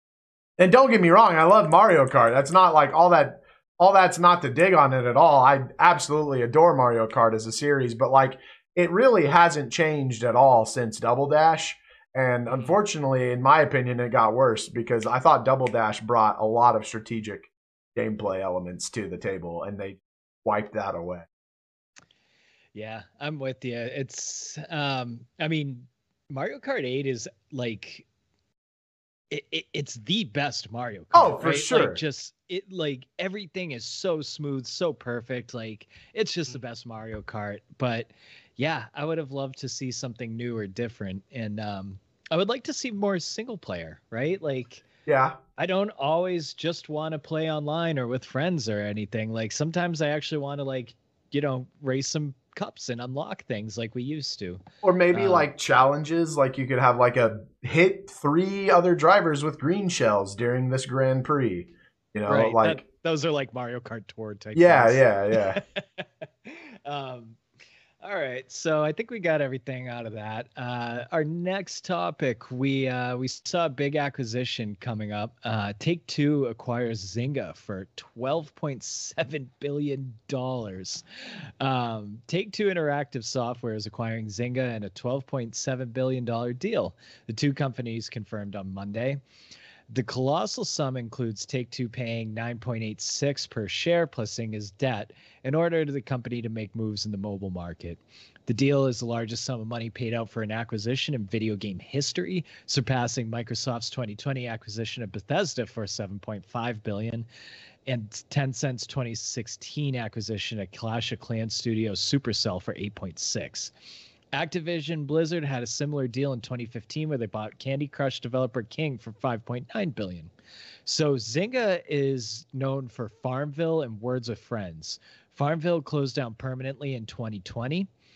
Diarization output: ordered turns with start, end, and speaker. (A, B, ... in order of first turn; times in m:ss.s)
0:00.6-0:21.3 A
0:22.7-0:28.0 B
0:29.3-0:44.8 B
0:31.1-0:32.0 A
0:45.0-0:45.4 A
0:45.6-0:54.6 B
0:54.8-1:02.8 A
0:55.1-0:55.5 B
1:02.3-1:07.4 B
1:04.5-1:05.6 A
1:08.0-1:21.0 B
1:21.6-1:29.2 B
1:29.9-1:47.2 B
1:47.9-1:53.7 B
1:54.3-2:00.3 B
2:00.8-2:07.9 B